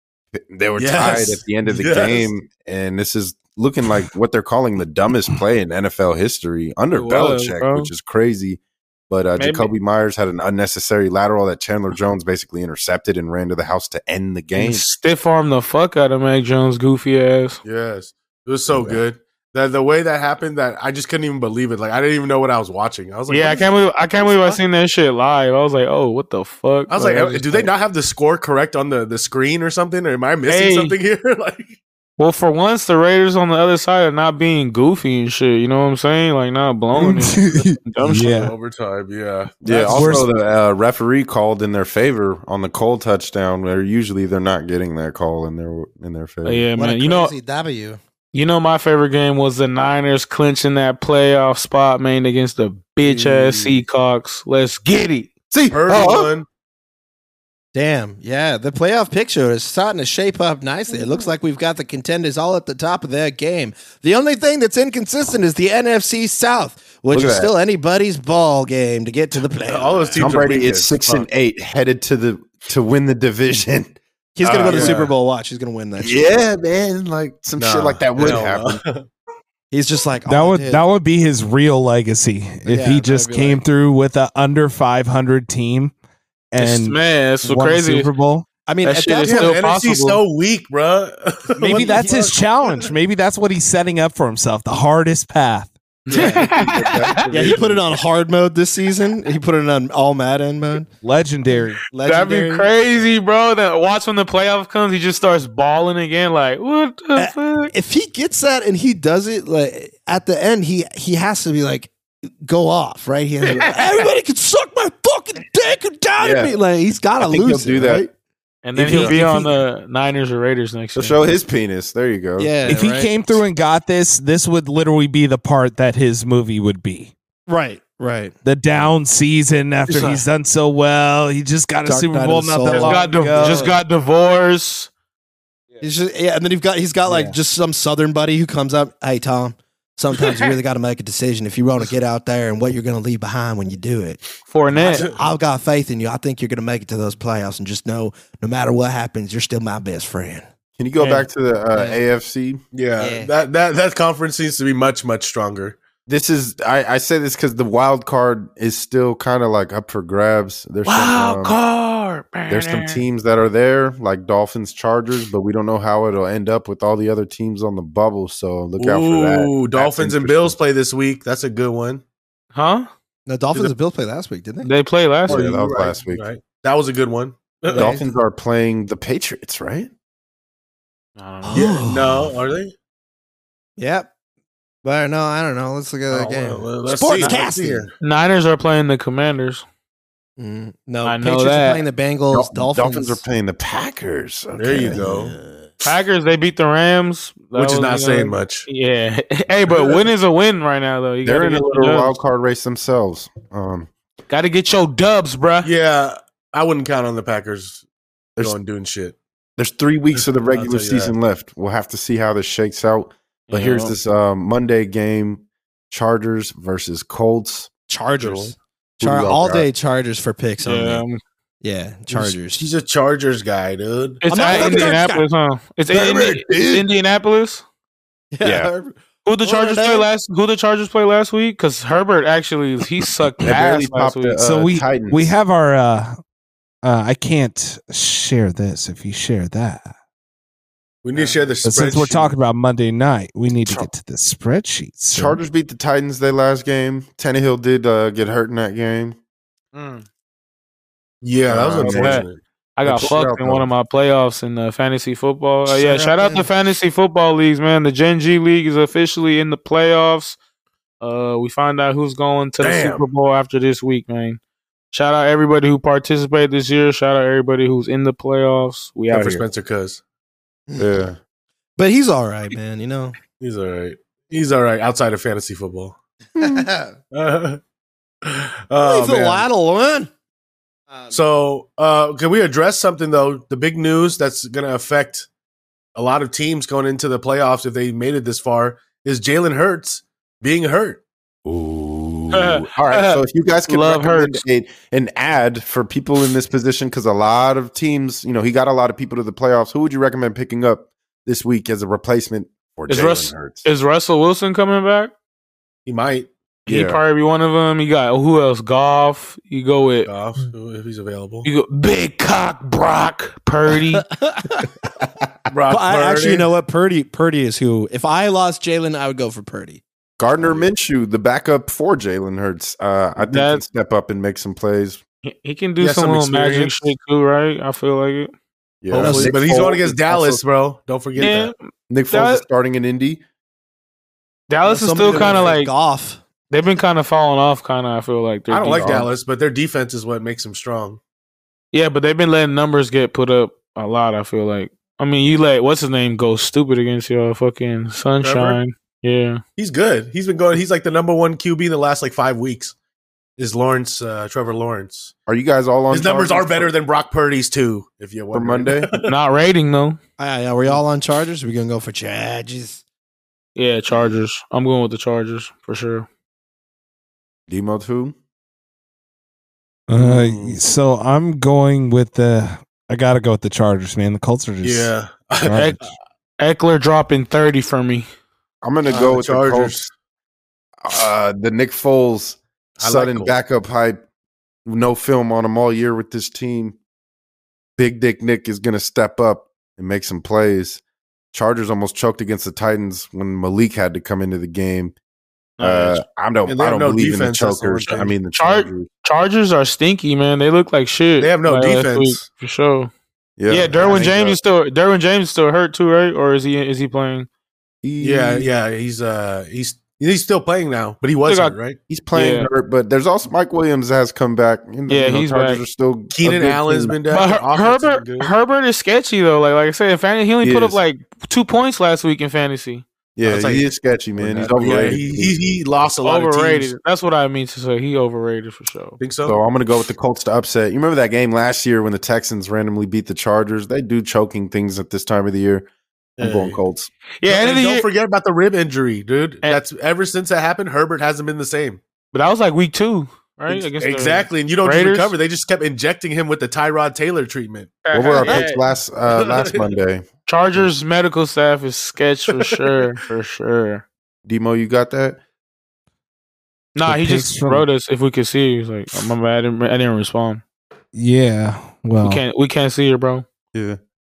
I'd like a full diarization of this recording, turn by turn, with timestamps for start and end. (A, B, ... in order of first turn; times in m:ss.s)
0:00.3-0:14.8 A
0:00.8-0:02.3 B
0:06.9-0:07.9 C
0:09.4-0:09.7 C
0:14.6-0:17.6 C
0:17.6-0:24.6 B
0:18.7-0:19.0 A
0:23.3-0:27.7 C
0:26.9-0:31.8 B
0:30.5-0:31.0 C
0:32.2-0:38.3 C
0:37.0-0:38.5 D
0:38.1-0:40.3 B
0:39.6-0:46.7 A
0:39.9-0:40.3 D
0:46.4-0:47.3 C
0:46.8-0:48.0 E
0:48.3-0:55.3 C
0:53.0-0:53.8 B
0:55.5-0:56.3 A
0:55.7-0:56.5 B
0:57.7-1:10.4 E
1:07.1-1:07.5 A
1:09.7-1:11.3 B
1:10.2-1:15.0 A
1:14.4-1:16.4 E
1:14.6-1:15.1 B
1:16.0-1:18.8 A
1:17.6-1:19.1 B
1:19.7-1:20.8 E
1:20.3-1:25.9 D
1:22.7-1:23.6 E
1:26.5-1:28.5 D
1:26.6-1:28.1 C
1:28.7-1:29.6 E
1:28.8-1:30.2 C
1:29.2-1:32.9 B
1:31.6-1:35.8 D
1:31.6-1:32.3 E
1:36.1-1:37.2 C
1:36.1-1:36.5 E
1:36.1-1:37.8 A
1:37.3-1:40.9 E
1:41.0-1:41.8 D
1:41.9-1:42.7 E
1:41.9-1:47.7 C
1:47.2-1:51.9 E
1:52.4-1:58.1 E
1:53.4-1:53.7 C
1:56.2-1:56.6 A
1:57.2-1:58.0 A
1:58.6-2:01.3 C
1:58.8-1:59.2 A
1:58.9-1:59.4 E
2:01.0-2:02.7 A
2:02.4-2:03.1 E
2:02.7-2:07.1 D
2:07.5-2:08.3 E
2:08.4-2:13.8 D
2:09.9-2:10.2 C
2:11.8-2:13.7 E
2:12.7-2:14.9 C
2:15.8-2:30.4 E
2:17.1-2:17.4 D
2:24.5-2:25.1 C
2:24.9-2:25.2 B
2:30.8-2:32.6 A
2:31.0-2:31.3 C
2:31.8-2:32.0 E
2:32.7-2:35.8 B
2:33.0-2:33.3 E
2:36.1-2:41.6 A
2:40.8-2:43.0 C
2:42.5-2:50.6 A
2:48.8-2:52.0 B
2:52.5-2:52.9 C
2:53.3-2:54.7 E
2:54.6-2:55.4 C
2:55.3-2:56.3 A
2:55.3-2:58.0 B
2:57.7-2:58.1 E
2:57.7-2:59.9 A
3:01.2-3:01.7 C
3:01.4-3:02.3 E
3:01.5-3:02.7 B
3:03.8-3:04.1 E
3:04.8-3:07.9 E
3:06.1-3:07.9 B
3:08.0-3:09.6 C
3:10.4-3:13.2 E
3:11.0-3:11.8 C
3:12.3-3:15.4 A
3:14.6-3:15.4 B
3:14.9-3:15.3 E
3:15.8-3:22.2 C
3:17.6-3:18.7 B
3:19.7-3:20.0 B
3:21.2-3:23.9 A
3:24.3-3:25.7 C
3:25.6-3:27.8 B
3:28.4-3:29.2 B
3:29.6-3:37.7 A
3:30.5-3:31.1 B
3:33.5-3:33.9 C
3:37.9-3:41.0 E
3:38.2-3:38.5 B
3:39.0-3:39.7 A
3:40.6-3:41.2 C
3:41.6-3:42.7 E
3:42.1-3:44.6 B
3:44.2-3:47.6 C
3:44.3-3:45.3 E
3:44.5-3:44.9 A
3:45.9-3:46.9 A
3:48.3-3:50.1 E
3:48.4-3:48.7 A
3:49.2-3:54.4 C
3:53.4-3:55.4 A
3:54.4-3:56.2 D
3:56.8-3:59.9 D
4:01.0-4:02.4 B
4:01.2-4:01.4 C
4:01.6-4:05.4 D
4:05.1-4:09.2 A
4:09.7-4:10.0 C
4:11.2-4:12.4 B
4:11.5-4:12.2 A
4:11.8-4:12.3 C
4:12.8-4:20.4 C
4:12.8-4:13.7 A
4:15.7-4:16.5 E
4:21.0-4:24.4 C
4:22.6-4:23.0 B
4:24.9-4:29.4 C
4:29.1-4:30.0 B
4:30.7-4:31.0 E
4:30.8-4:31.2 A
4:31.8-4:33.2 E
4:33.4-4:36.0 B
4:36.4-4:36.7 A
4:36.4-4:37.0 E
4:37.1-4:37.6 B
4:38.2-4:39.5 B
4:38.8-4:40.1 E
4:41.1-4:45.3 B
4:46.0-4:51.0 B
4:51.4-5:03.6 A
4:52.3-4:54.4 C
5:02.9-5:05.1 C
5:05.9-5:06.3 B
5:06.7-5:10.1 C
5:06.7-5:07.0 A
5:10.1-5:11.5 B
5:11.4-5:14.1 C
5:14.0-5:14.7 E
5:15.5-5:16.5 B
5:15.7-5:19.8 E
5:20.2-5:25.0 A
5:20.4-5:20.7 B
5:23.2-5:23.6 C
5:25.2-5:28.3 C
5:25.8-5:26.8 B
5:28.8-5:30.4 A
5:28.9-5:31.5 B
5:29.0-5:29.3 E
5:31.2-5:31.6 C
5:31.9-5:33.2 A
5:32.1-5:32.4 C
5:34.5-5:35.7 C
5:34.6-5:36.2 E
5:35.0-5:35.5 B
5:36.5-5:39.1 C
5:38.5-5:41.0 B
5:38.7-5:39.1 A
5:41.7-5:49.4 C
5:48.2-5:48.6 B
5:49.6-5:52.8 B
5:53.4-5:55.1 B
5:55.3-5:56.7 A
5:55.9-5:59.1 B
5:58.3-5:58.9 A
5:59.0-6:00.0 C
6:00.2-6:02.8 E
6:03.6-6:06.1 C
6:07.5-6:08.2 A
6:09.9-6:14.9 D
6:09.9-6:10.6 B
6:14.6-6:15.7 B
6:15.4-6:15.8 D
6:15.5-6:18.1 C
6:18.6-6:19.8 A
6:18.9-6:19.9 B
6:20.8-6:24.0 A
6:22.8-6:23.4 B
6:24.6-6:26.8 A
6:27.8-6:30.8 A
6:31.3-6:35.0 A
6:35.6-6:36.0 C
6:35.6-6:38.9 A
6:36.5-6:38.1 B
6:38.3-6:42.9 C
6:41.2-6:42.2 B
6:43.4-6:44.4 A
6:43.5-6:47.3 C
6:43.8-6:44.2 B
6:47.8-6:48.5 A
6:48.0-6:51.8 B
6:51.2-6:51.6 C
6:51.9-6:57.0 A
6:52.1-6:52.5 C
6:54.9-6:55.6 C
6:56.1-6:58.3 B
6:57.1-7:02.8 C
7:00.4-7:00.8 A
7:03.2-7:05.4 A
7:03.2-7:06.7 B
7:06.0-7:09.0 C
7:09.0-7:09.4 B
7:09.2-7:15.7 A
7:16.2-7:16.9 A
7:16.2-7:16.6 B
7:17.2-7:17.9 C
7:17.3-7:21.8 B
7:22.1-7:25.1 C
7:23.5-7:28.4 B
7:27.8-7:28.6 C
7:27.9-7:30.0 A
7:29.2-7:29.6 B
7:30.3-7:33.8 C
7:34.2-7:35.2 A
7:36.8-7:40.4 C
7:36.8-7:37.7 D
7:40.9-7:42.2 D
7:42.0-7:43.2 C
7:43.5-7:43.8 A